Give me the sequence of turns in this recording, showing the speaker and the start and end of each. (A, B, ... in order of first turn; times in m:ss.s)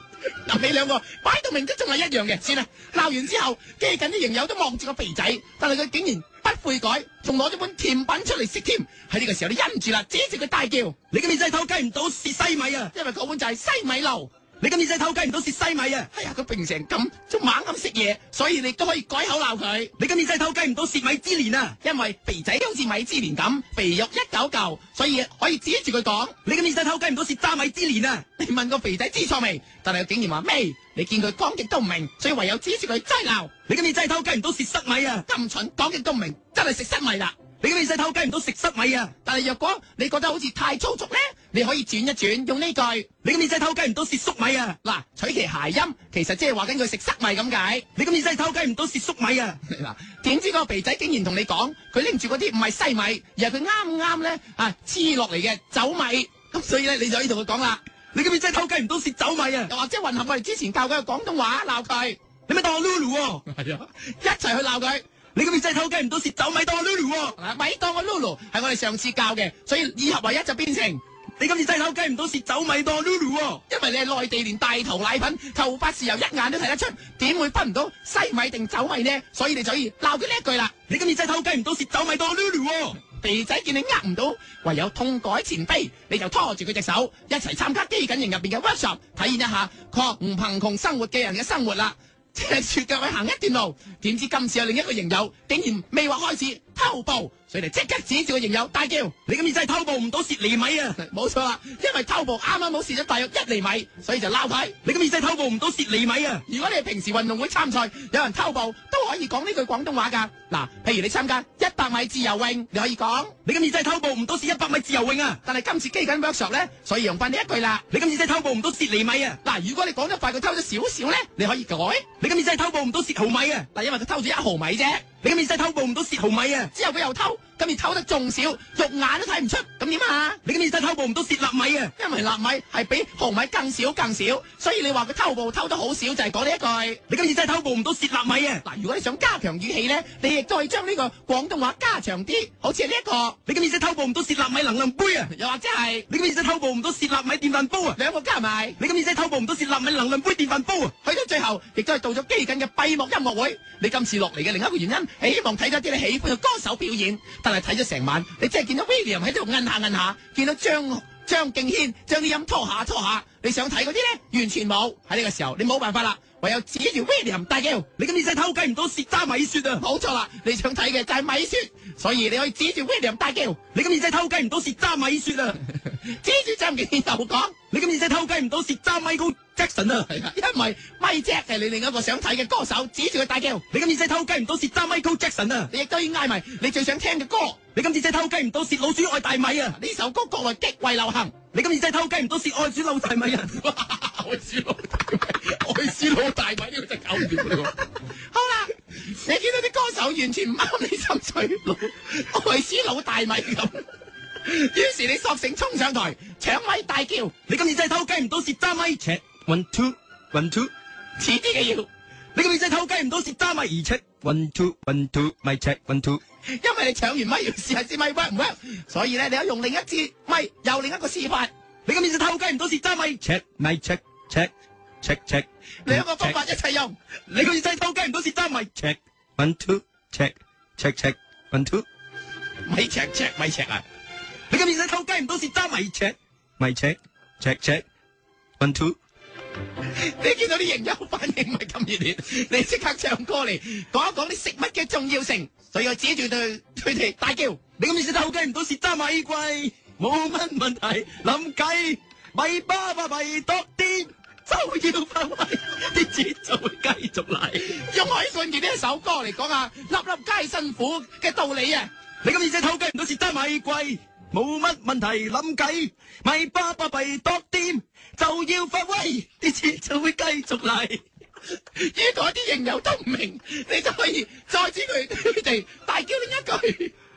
0:00.4-0:11.0 A
0:11.1-0:12.9 B
0:12.9-0:14.3 A
0:14.6-0:16.1 B
0:16.1-0:19.9 A
0:20.0-0:21.8 B
0:21.8-0:26.4 A
0:26.4-0:28.2 B
0:28.4-0:33.5 A
0:33.7-0:35.2 B
0:35.3-0:37.4 A
0:37.6-0:39.1 B
0:39.2-0:43.1 A
0:43.2-0:44.8 B
0:44.8-0:47.8 A
0:48.0-0:49.6 B
0:49.6-0:57.8 A
0:58.1-0:59.7 B
0:59.7-1:02.2 A
1:02.5-1:03.4 B
1:03.5-1:05.0 A
1:05.4-1:07.4 B
1:07.4-1:11.0 A
1:11.4-1:13.6 B
1:13.7-1:20.7 A
1:20.9-1:23.0 B
1:23.2-1:39.1 A
1:39.3-1:41.0 B
1:41.0-1:44.8 A
1:44.8-1:46.4 B
1:46.5-1:53.3 A
1:53.4-1:55.4 B
1:55.4-1:57.8 A
1:57.9-1:59.4 B
1:59.4-2:02.1 A
2:02.2-2:03.7 B
2:03.7-2:05.0 A
2:05.2-2:06.7 B
2:06.7-2:10.4 A
2:10.4-2:11.9 B
2:12.0-2:17.0 A
2:17.1-2:18.6 B
2:18.6-2:23.4 A
2:23.5-2:25.3 B
2:25.3-2:26.1 A
2:26.1-2:28.0 B
2:28.0-2:28.8 A
2:28.8-2:30.9 B
2:31.0-2:47.9 A
2:48.0-2:49.8 B
2:49.8-2:53.6 A
2:53.7-2:55.6 B
2:55.7-2:57.6 A
2:57.7-3:00.1 B
3:00.1-3:03.6 A
3:03.7-3:05.7 B
3:05.7-3:07.6 A
3:07.8-3:09.8 B
3:09.8-3:11.3 A
3:11.5-3:13.6 B
3:13.5-3:23.8 A
3:24.4-3:27.3 A
3:27.5-3:30.7 B
3:31.2-3:31.9 A
3:32.4-3:36.2 B
3:36.6-3:41.5 A
3:41.9-3:46.4 B
3:45.9-3:47.0 A
3:47.3-3:51.8 B
3:52.7-3:53.8 A
3:54.5-3:57.8 B
3:58.6-3:59.0 B
4:00.0-4:07.6 A
4:07.8-4:17.8 B
4:17.7-4:21.9 A
4:22.2-4:31.0 B
4:31.8-4:36.9 A